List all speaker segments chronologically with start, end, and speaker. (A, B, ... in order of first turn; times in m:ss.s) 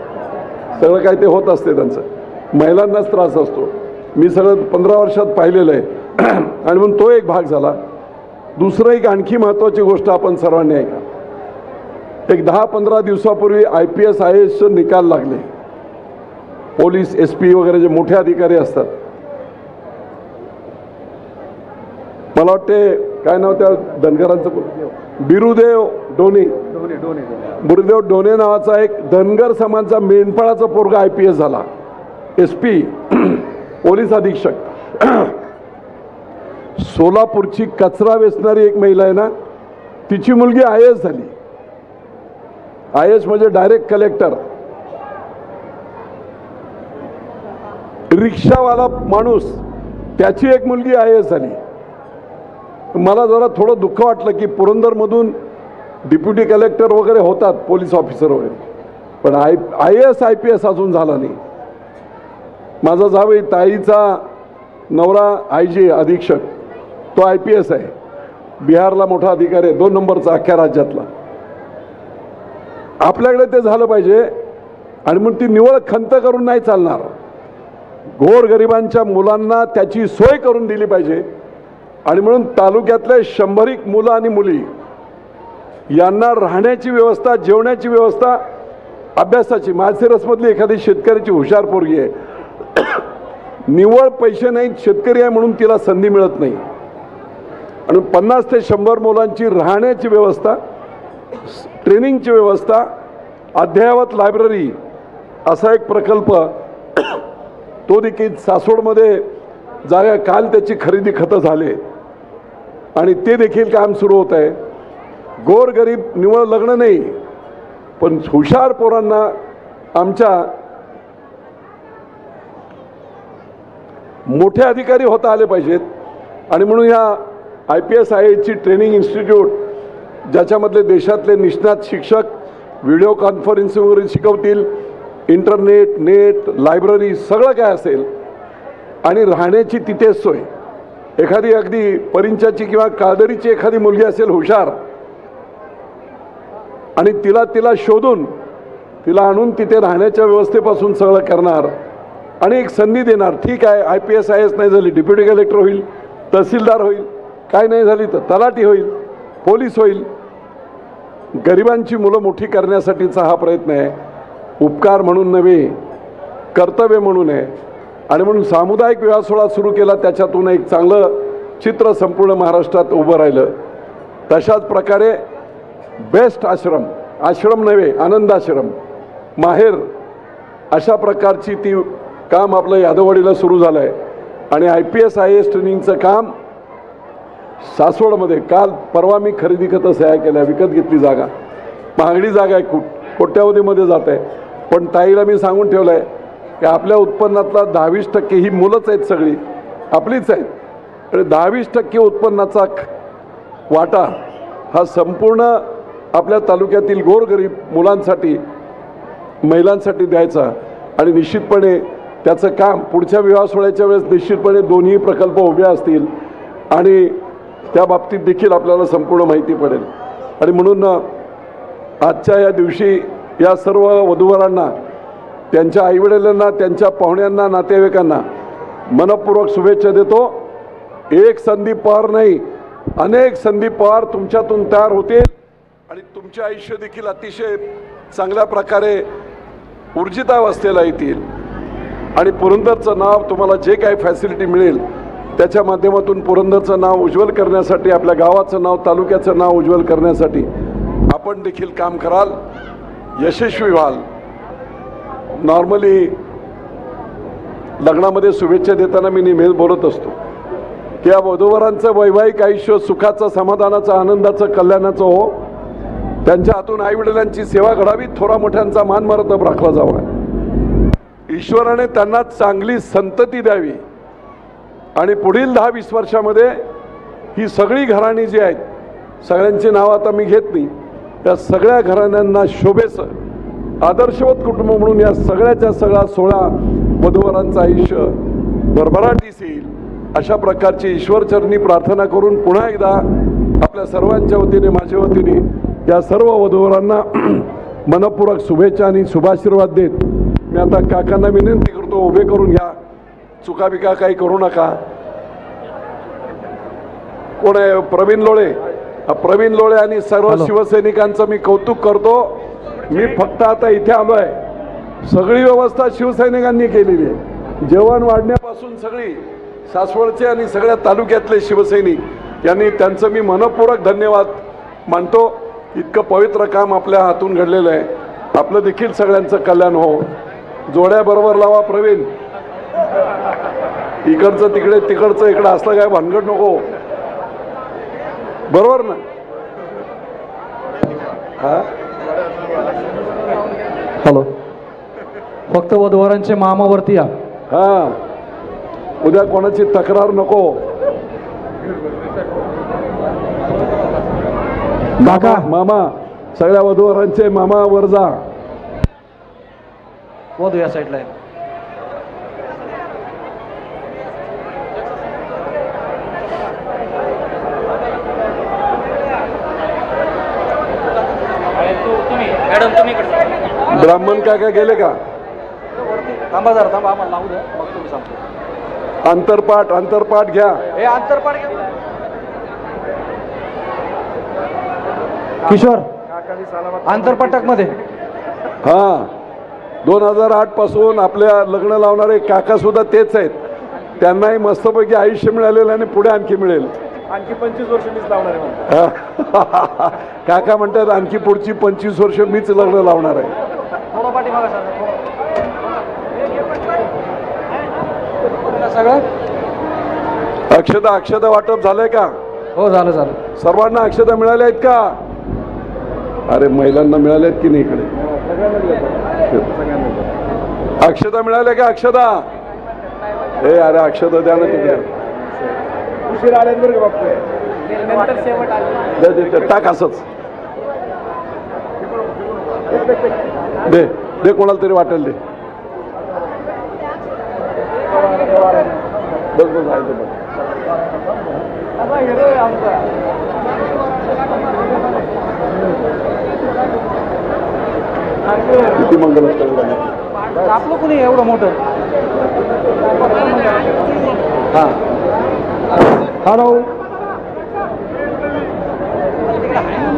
0:00.8-0:07.8 A
0:08.6-0:11.0 A
0:12.3-0:15.4 A
0:16.8-0:18.9 A
0:22.3-0:26.5 A
0:27.6-0:31.6 A
0:32.4-0:35.4 A
0:36.8-0:39.3 A
0:40.1-0:41.3 A
0:42.9-0:44.4 A
0:48.1-0:49.6 A
0:50.2-0:51.6 A
0:52.9-0:55.3 A
0:56.0-0:58.6 A
0:59.2-1:01.4 A
1:02.8-1:04.2 A
1:04.9-1:06.5 A
1:07.1-1:07.9 A
1:08.6-1:11.1 A
1:13.0-1:14.3 A
1:15.0-1:17.1 A
1:18.2-1:21.2 A
1:22.1-1:24.7 A
1:25.9-1:28.4 A
1:29.2-1:32.1 A
1:32.7-1:33.0 A
1:33.7-1:36.6 A
1:37.9-1:40.6 A
1:41.5-1:42.8 A
1:43.6-1:44.7 A
1:45.4-1:47.2 A
1:47.9-1:49.2 A
1:49.8-1:51.8 A
1:53.0-1:54.6 A
1:55.4-1:57.2 A
1:58.0-1:59.3 A
1:59.9-2:00.5 A
2:04.3-2:05.8 A
2:06.5-2:09.6 A
2:10.3-2:12.3 A
2:12.8-2:14.7 A
2:15.3-2:18.1 A
2:19.0-2:20.5 A
2:21.2-2:24.7 A
2:27.0-2:28.3 A
2:29.0-2:31.7 A
2:32.4-2:38.9 A
2:39.4-2:40.0 A
2:41.4-2:44.0 A
2:44.6-2:45.7 A
2:46.5-2:47.5 A
2:48.1-2:53.5 A
2:54.3-2:55.1 A
2:56.0-2:58.7 A
2:59.4-2:59.8 A
3:00.7-3:03.9 A
3:04.5-3:06.3 A
3:07.7-3:11.3 A
3:12.0-3:16.0 A
3:16.6-3:19.4 A
3:19.9-3:20.5 A
3:21.1-3:22.9 A
3:23.7-3:24.1 A
3:24.7-3:25.6 A
3:26.1-3:28.4 A
3:29.4-3:36.1 A
3:36.7-3:37.1 A
3:37.7-3:41.0 A
3:42.0-3:44.7 A
3:45.5-3:48.2 A
3:48.9-3:50.3 A
3:51.1-3:52.4 A
3:53.0-3:55.3 A
3:55.9-3:59.0 A
3:59.9-4:01.2 A
4:02.2-4:04.8 A
4:05.4-4:10.5 A
4:11.1-4:12.3 A
4:13.2-4:14.0 A
4:15.4-4:16.1 A
4:17.8-4:20.1 A
4:21.0-4:25.3 A
4:26.2-4:30.1 A
4:31.3-4:33.8 A
4:35.0-4:36.5 A
4:37.3-4:38.6 A
4:39.2-4:40.7 A
4:41.2-4:43.1 A
4:43.8-4:48.1 A
4:48.7-4:53.0 A
4:53.6-5:02.7 A
5:03.4-5:04.8 A
5:07.4-5:14.4 A
5:15.0-5:30.1 A
5:30.7-5:32.1 A
5:34.0-5:36.6 A
5:38.5-5:39.0 A
5:41.4-5:41.7 A
5:44.0-5:44.3 B
5:45.5-5:47.1 B
5:47.5-5:47.9 A
5:49.0-5:50.6 A
5:55.0-5:58.2 A
5:55.0-5:55.5 B
6:00.4-6:01.1 B
6:12.2-6:13.1 B
6:13.7-6:14.9 A
6:16.0-6:18.0 B
6:19.0-6:20.7 A
6:20.8-6:21.5 B
6:25.4-6:25.9 B
6:26.8-6:27.8 B
6:28.6-6:29.1 A
6:29.8-6:33.4 A
6:34.0-6:36.7 A
6:37.1-6:38.6 C
6:38.7-6:43.3 A
6:44.0-6:44.9 B
6:48.5-6:49.0 B
6:50.5-6:52.1 A
6:52.6-6:53.2 B
6:53.4-6:54.9 A
6:56.3-6:57.9 A
6:59.1-6:59.5 A
7:00.8-7:02.2 A
7:03.4-7:04.9 A
7:06.1-7:07.2 C
7:07.8-7:08.3 C
7:09.0-7:10.0 A
7:13.6-7:15.2 A
7:19.3-7:20.2 A
7:28.7-7:29.8 A
7:30.5-7:31.6 B
7:36.2-7:36.7 B